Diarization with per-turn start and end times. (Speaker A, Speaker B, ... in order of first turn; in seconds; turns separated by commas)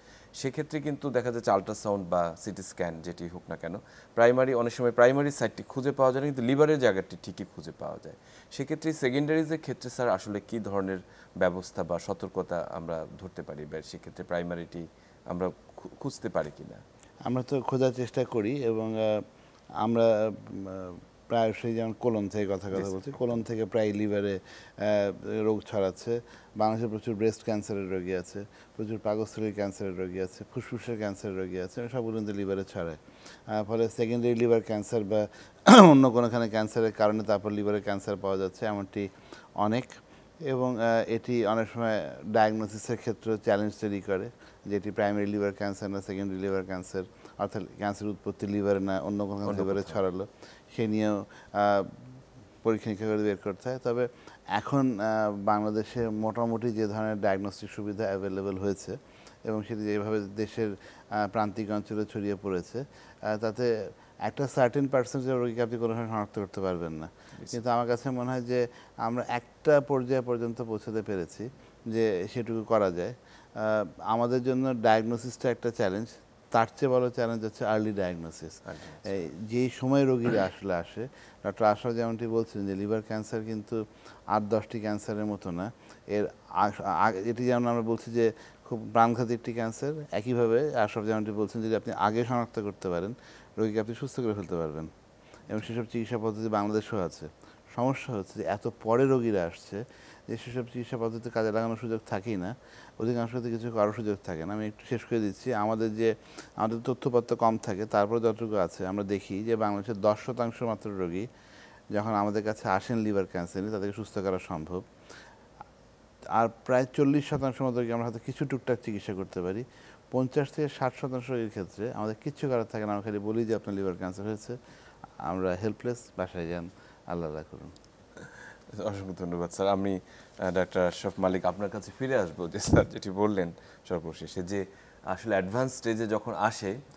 Speaker A: 0.4-16.8, Speaker B: 17.2-19.2, Speaker B: 19.8-52.0, Speaker A: 22.7-23.4, Speaker A: 49.5-50.0, Speaker B: 52.6-83.8, Speaker A: 78.7-79.2, Speaker B: 84.3-94.9, Speaker B: 95.5-111.3, Speaker B: 111.9-114.8, Speaker B: 116.3-124.6, Speaker B: 125.2-127.7, Speaker A: 128.2-136.8